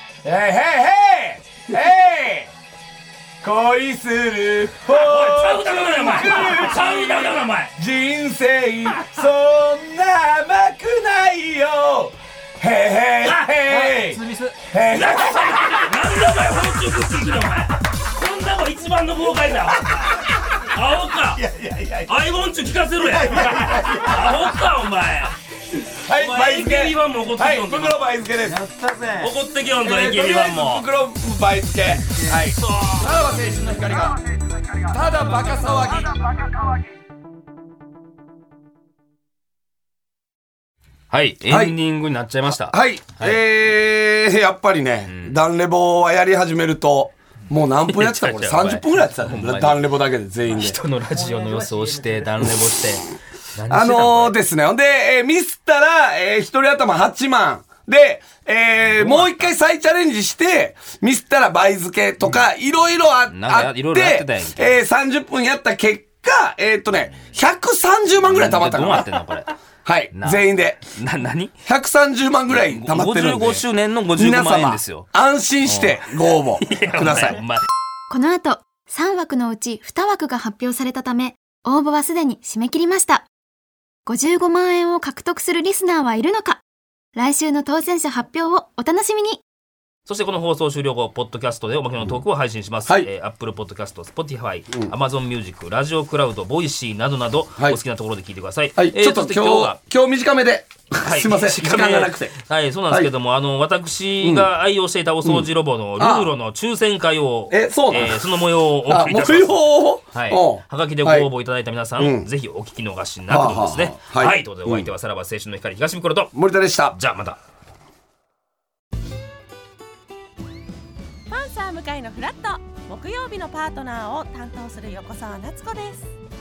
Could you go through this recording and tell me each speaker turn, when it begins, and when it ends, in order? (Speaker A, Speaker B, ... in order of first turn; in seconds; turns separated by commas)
Speaker A: 0.2-2.5, Speaker A: 3.4-15.9, Speaker B: 4.9-7.7, Speaker B: 13.2-13.5, Speaker C: 13.7-14.6, Speaker B: 14.9-21.4, Speaker A: 21.3-22.2, Speaker B: 22.1-25.4, Speaker A: 23.0-24.5, Speaker A: 25.8-28.6, Speaker B: 26.1-28.1, Speaker C: 28.4-29.3, Speaker B: 29.2-30.9, Speaker A: 29.7-34.2, Speaker C: 31.9-32.4, Speaker B: 32.5-33.2, Speaker A: 34.7-36.5, Speaker B: 41.1-43.4, Speaker A: 41.5-41.8, Speaker A: 42.7-50.8, Speaker B: 45.1-45.4, Speaker B: 47.8-49.8, Speaker B: 50.4-54.4, Speaker C: 51.1-52.4, Speaker A: 53.7-69.2, Speaker B: 58.8-59.5, Speaker B: 63.3-64.8, Speaker B: 68.2-69.5, Speaker A: 69.8-70.8, Speaker B: 70.1-71.5, Speaker A: 71.6-77.4, Speaker B: 72.5-75.1, Speaker B: 75.6-77.6, Speaker D: 78.1-83.3, Speaker D: 84.0-86.6, Speaker D: 87.1-89.4, Speaker B: 90.0-99.8, Speaker A: 98.8-102.3, Speaker B: 101.0-116.3, Speaker A: 104.2-104.5, Speaker A: 105.2-106.3, Speaker A: 107.5-111.3, Speaker A: 112.0-112.3, Speaker A: 113.3-114.9, Speaker A: 116.3-117.0, Speaker B: 116.9-117.4, Speaker E: 121.3-126.1